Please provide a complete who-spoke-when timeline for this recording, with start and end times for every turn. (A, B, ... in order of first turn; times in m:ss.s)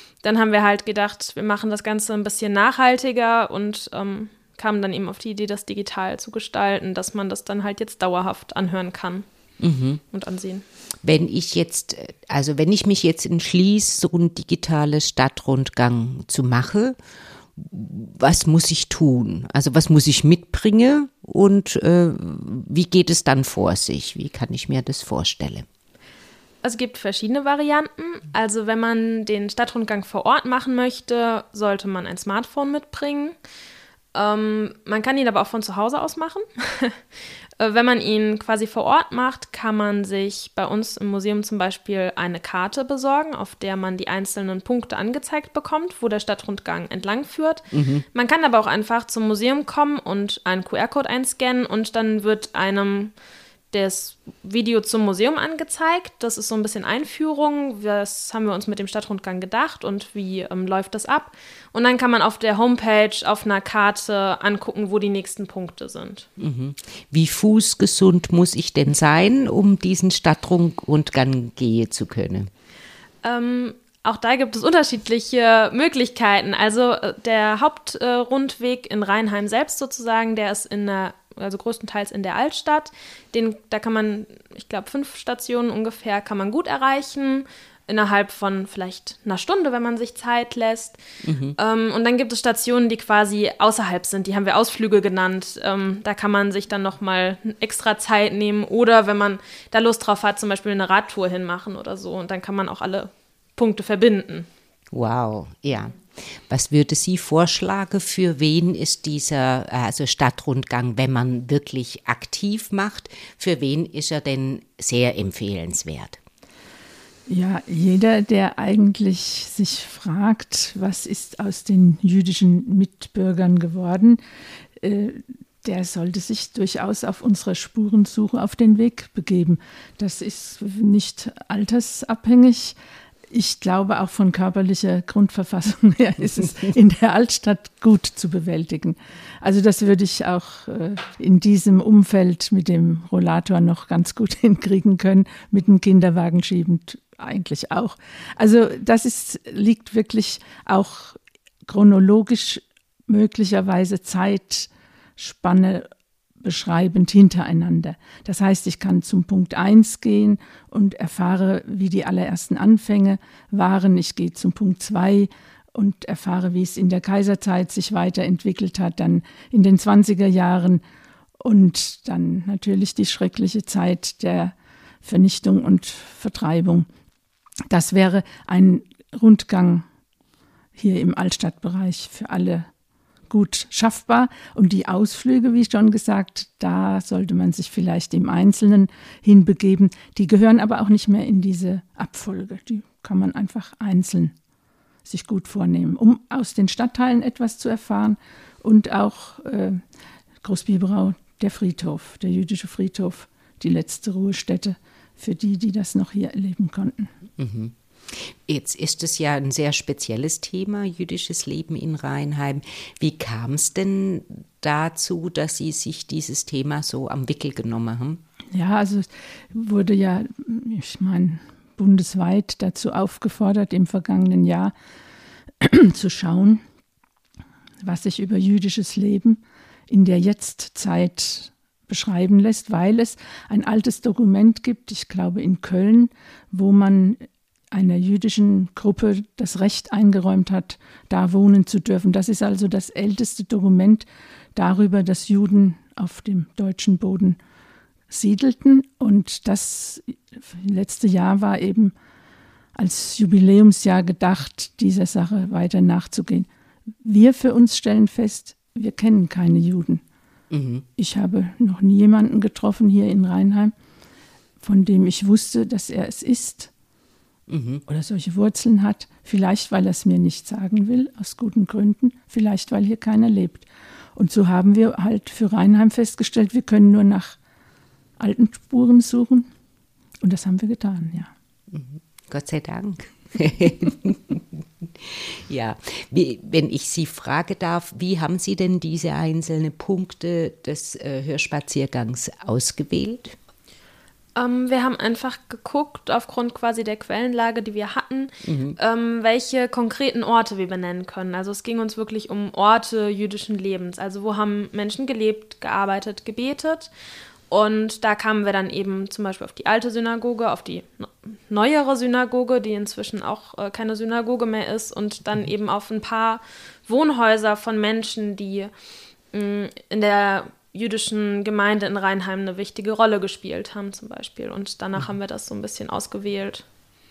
0:00.2-0:09.2 A
0:09.6-0:10.0 B
0:10.1-0:10.6 A
0:11.0-0:17.0 B
0:17.6-0:25.6 B
0:26.6-0:33.3 A
0:34.1-0:37.0 A
0:37.6-0:53.1 A
0:47.7-0:48.0 B
0:53.7-1:06.2 A
1:06.4-1:12.5 B
1:13.2-1:31.0 A
1:31.2-1:31.6 B
1:31.6-1:44.5 A
1:44.9-1:56.2 B
1:57.3-2:04.2 C
2:04.8-2:12.8 C
2:13.3-2:35.9 C
2:36.4-2:50.8 C
2:51.4-2:56.9 C
2:57.7-2:59.8 C
3:00.8-3:02.7 C
3:03.3-3:14.3 C
3:15.0-3:19.8 C
3:20.4-3:27.1 C
3:27.4-3:38.2 B
3:38.5-3:44.7 C
3:45.6-3:46.6 C
3:47.8-4:07.4 C
4:08.1-4:11.9 C
4:12.8-4:16.5 C
4:17.0-4:20.0 C
4:20.5-4:20.8 B
4:21.0-4:23.7 C
4:24.6-4:26.7 C
4:27.5-4:27.8 B
4:27.9-4:37.4 C
4:38.2-4:39.5 C
4:40.2-4:41.3 C
4:41.7-4:53.3 B
4:54.4-5:06.9 A
4:58.4-4:58.8 B
5:07.5-5:18.7 A
5:19.3-5:26.6 A